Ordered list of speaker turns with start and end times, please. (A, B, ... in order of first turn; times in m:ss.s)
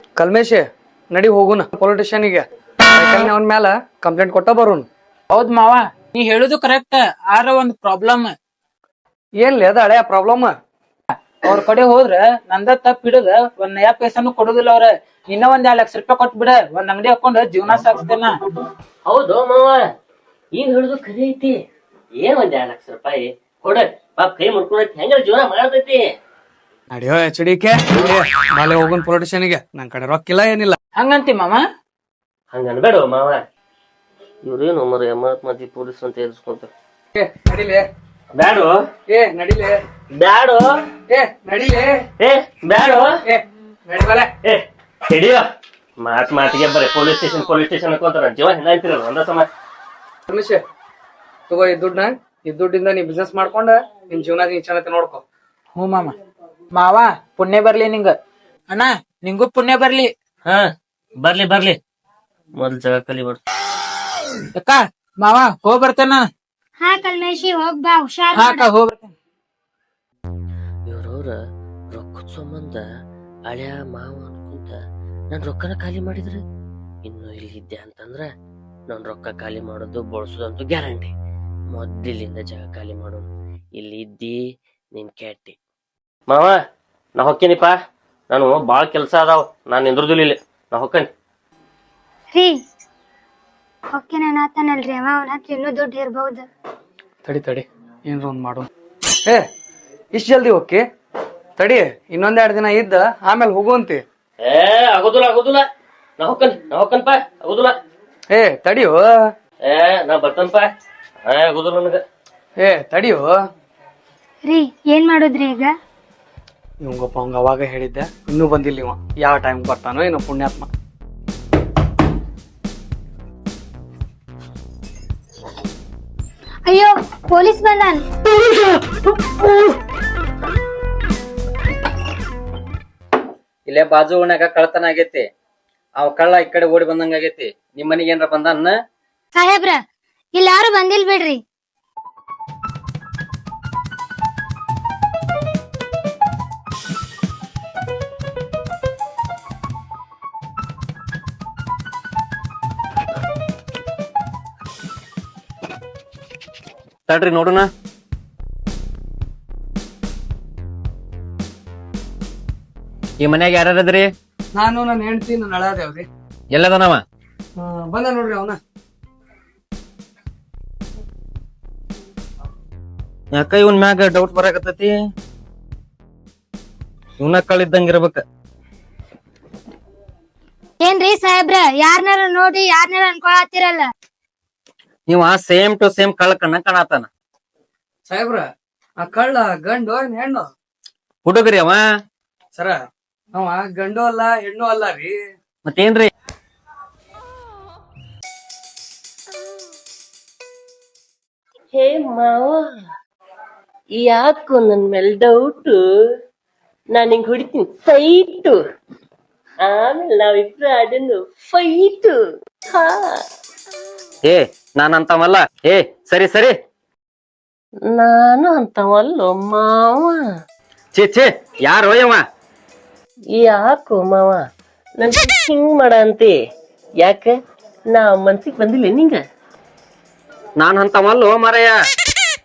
0:00.2-0:04.9 A
0:05.3-0:08.4 B
0:09.4-0:10.5 A
0:11.4-0:18.4 B
0:19.1-0:19.8 C
0:20.6-0:21.6 C
0:22.2-0:26.0 C
0:26.9-0:30.8 A
0:31.0-0:31.7 B
0:32.5-0:33.4 C
0:34.4-0:36.7 C
0:37.2-0:37.8 A
0:38.4-0:38.8 C
0:39.1-0:39.8 A
0:40.2-0:40.7 C
0:41.1-0:42.0 A
0:42.2-0:43.2 C
0:43.3-0:44.3 A
0:44.4-0:45.4 C
0:46.0-0:49.5 C
0:50.3-0:50.6 A
0:51.5-0:55.2 A
0:55.8-0:56.2 B
0:56.7-0:58.2 B
0:58.7-1:00.1 B
1:01.2-1:01.8 C
1:02.6-1:03.4 C
1:04.6-1:06.3 B
1:06.8-1:08.7 D
1:08.3-1:09.1 B
1:10.9-1:11.4 C
1:11.9-1:12.8 C
1:13.5-1:14.8 C
1:15.3-1:16.4 C
1:17.1-1:18.3 C
1:18.9-1:21.1 C
1:21.7-1:23.2 C
1:23.8-1:24.4 C
1:25.0-1:25.6 C
1:26.3-1:26.5 C
1:27.2-1:27.7 C
1:28.3-1:31.1 C
1:34.0-1:36.4 D
1:37.2-1:38.7 A
1:40.2-1:40.8 A
1:41.6-1:44.0 A
1:44.4-1:45.6 C
1:46.2-1:47.8 C
1:48.3-1:49.1 A
1:49.7-1:50.7 C
1:51.3-1:52.0 C
1:52.6-1:53.3 A
1:54.4-1:55.7 D
1:56.8-2:00.7 A
2:06.7-2:08.0 D
2:13.7-2:15.2 E
2:16.0-2:18.7 E
2:19.4-2:19.8 D
2:20.4-2:21.4 D
2:37.1-2:37.7 E
2:43.2-2:44.1 E
2:44.6-2:46.1 A
2:46.5-2:47.0 E
2:47.6-2:48.6 A
2:53.3-2:54.9 E
2:57.2-2:58.2 E
3:00.8-3:03.9 D
3:05.1-3:07.1 E
3:08.1-3:08.5 A
3:09.0-3:10.4 A
3:11.2-3:11.8 E
3:13.4-3:15.1 A
3:15.6-3:16.1 E
3:21.7-3:22.6 C
3:24.0-3:25.8 C
3:26.9-3:28.6 C
3:29.6-3:32.2 C
3:32.7-3:33.2 C
3:34.2-3:36.6 E
3:37.9-3:40.2 C
3:40.9-3:42.2 E
3:43.4-3:44.4 C
3:45.0-3:46.3 C
3:47.0-3:47.4 C
3:47.9-3:49.2 C
3:50.6-3:51.8 E